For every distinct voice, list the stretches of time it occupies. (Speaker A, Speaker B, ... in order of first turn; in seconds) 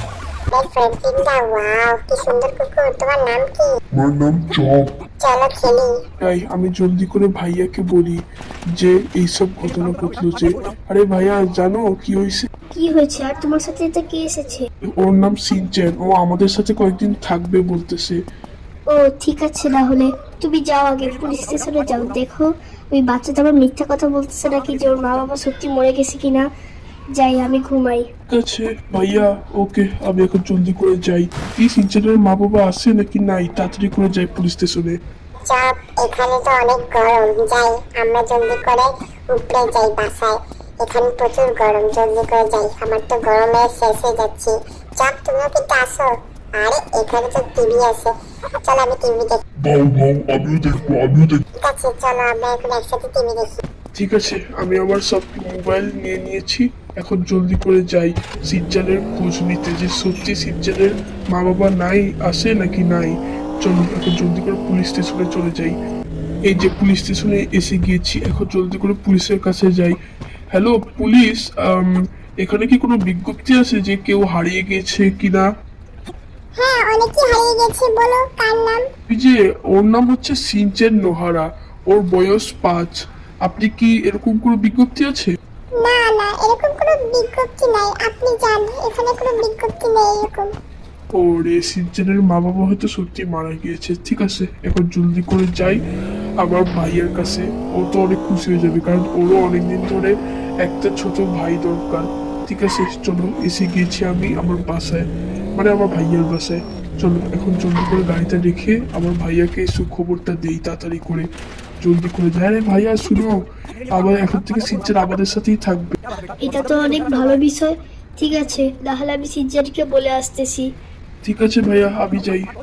Speaker A: 0.5-3.7, 5.2-5.9, 35.5-48.1, 48.6-49.4, 51.6-53.6, 76.6-78.8, 85.8-90.5
Speaker B: 3.9-4.9, 49.6-51.4
Speaker C: 6.2-8.2, 8.7-12.5, 15.0-18.2, 28.3-35.0, 53.9-65.8, 66.4-70.0, 70.5-75.5, 79.1-85.3, 91.1-95.8, 96.4-111.3, 111.8-113.4, 113.9-115.9, 121.2-122.5
Speaker D: 12.7-14.7, 18.9-26.4, 27.1-28.0, 116.4-120.7